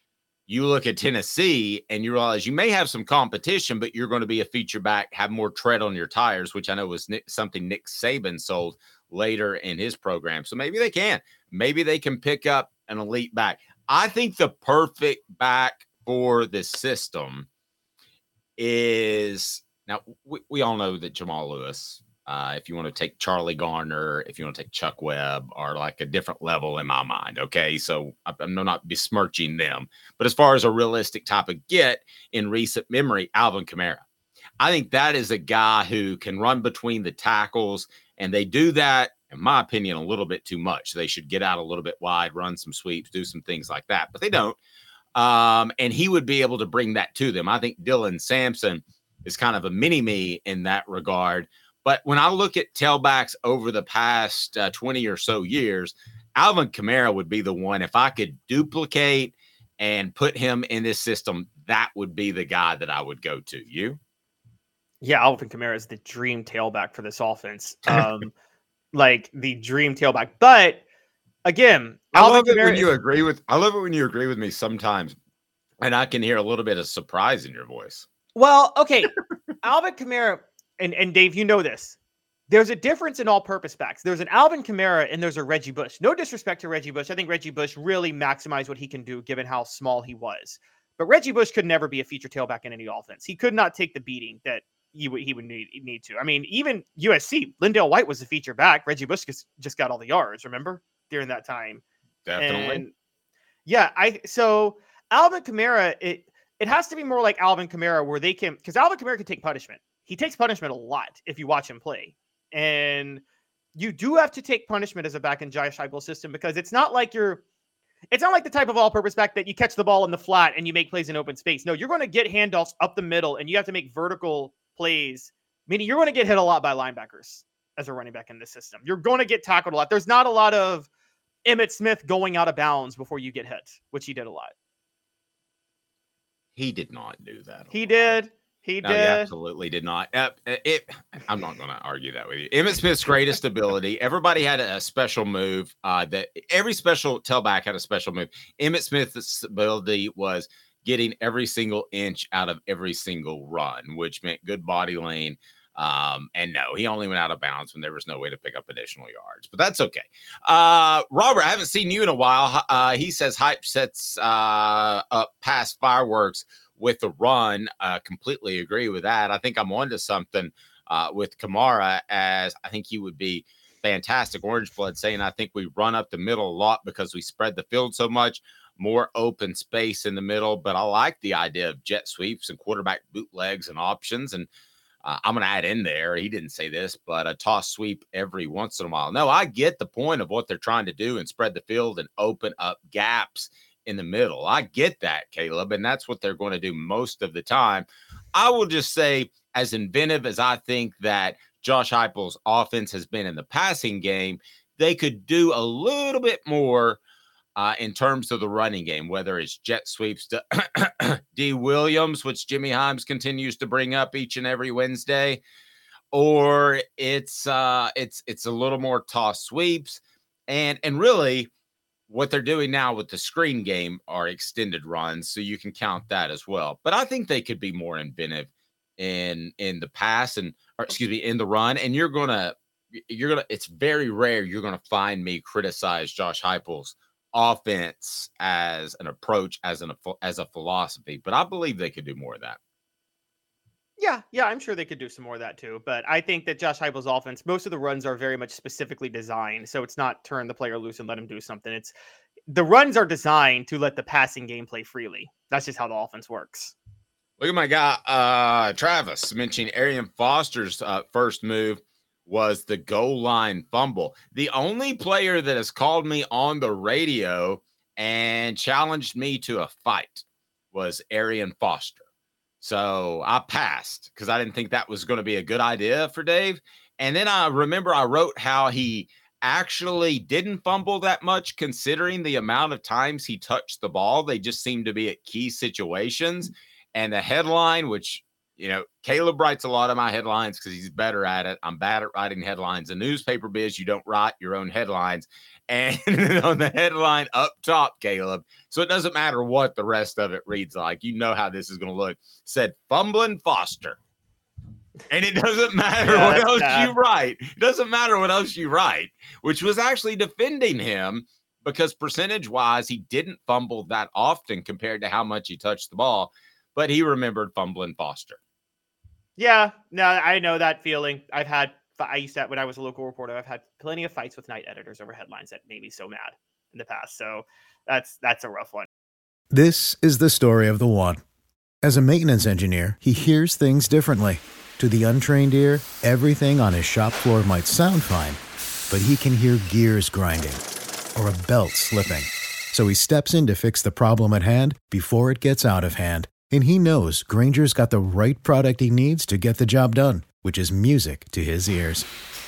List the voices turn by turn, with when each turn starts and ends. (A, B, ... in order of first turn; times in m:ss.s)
0:00.5-0:17.5 A
0:18.6-0:34.0 A
0:34.6-0:44.6 A
0:45.2-1:04.0 A
1:05.0-1:08.3 B
1:08.9-1:10.8 B
1:11.4-1:12.9 B
1:12.1-1:15.2 A
1:15.8-1:18.1 A
1:18.4-1:19.1 B
1:19.6-1:22.0 B
1:22.5-1:41.8 B
1:42.3-1:42.8 A
1:42.4-1:42.9 B
1:43.7-1:53.2 B
1:53.8-1:57.4 B
1:58.1-2:10.9 B
2:11.4-2:14.5 B
2:16.6-2:18.2 A
2:17.7-2:19.3 B
2:18.8-3:04.5 A
3:05.0-3:27.0 A
3:27.6-3:35.4 A
3:36.1-3:41.5 A
3:42.1-3:52.6 A
3:53.1-4:02.6 A
4:04.0-4:11.9 B
4:12.5-4:16.8 B
4:17.4-4:32.0 A
4:32.6-5:04.0 A
5:05.1-5:18.4 A
5:06.0-5:07.0 B
5:19.4-5:28.9 B
5:29.5-5:31.2 C
5:31.8-5:40.6 C
5:41.2-5:52.1 C